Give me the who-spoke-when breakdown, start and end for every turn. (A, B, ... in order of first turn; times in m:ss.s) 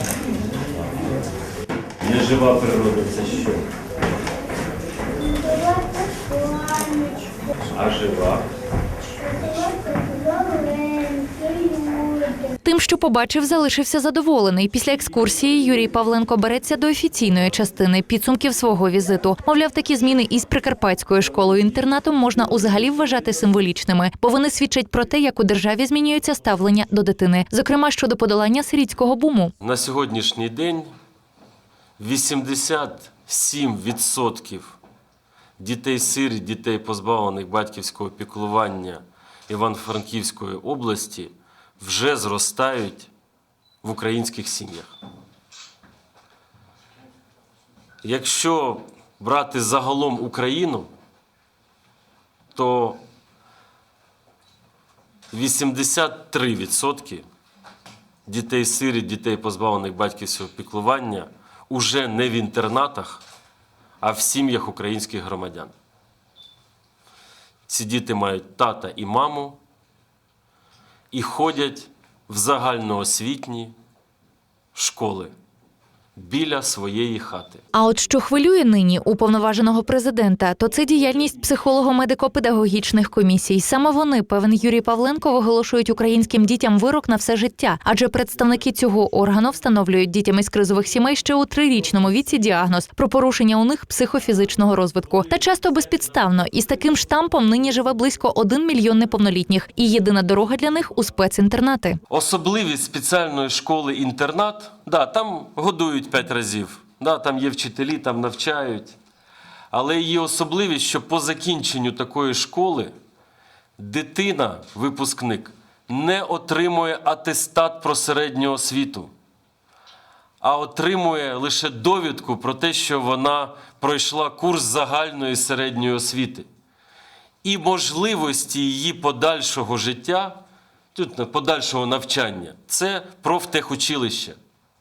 0:02.0-0:03.7 A
0:05.1-0:07.4 B
0:07.7-0:08.4 A
0:09.1-0:12.5 B
0:12.6-0:29.5 C
0:29.6-0:30.9 A
0:32.0-0:34.8 A
0:35.6-0:43.1 A
0:43.8-0:44.9 A
0:48.0-0:50.9 A
0:52.5-0:53.0 A
0:55.3-0:57.2 A
0:58.2-1:03.2 A
1:04.0-1:05.7 A
1:07.7-1:09.6 A
1:11.1-1:13.7 A
1:14.7-1:15.3 A
1:16.2-1:17.6 A
1:17.7-1:42.0 C
1:42.1-1:49.0 A
1:49.7-1:52.9 A
1:53.8-1:59.1 A
2:00.4-2:06.4 A
2:07.4-2:10.4 A
2:10.9-2:14.4 A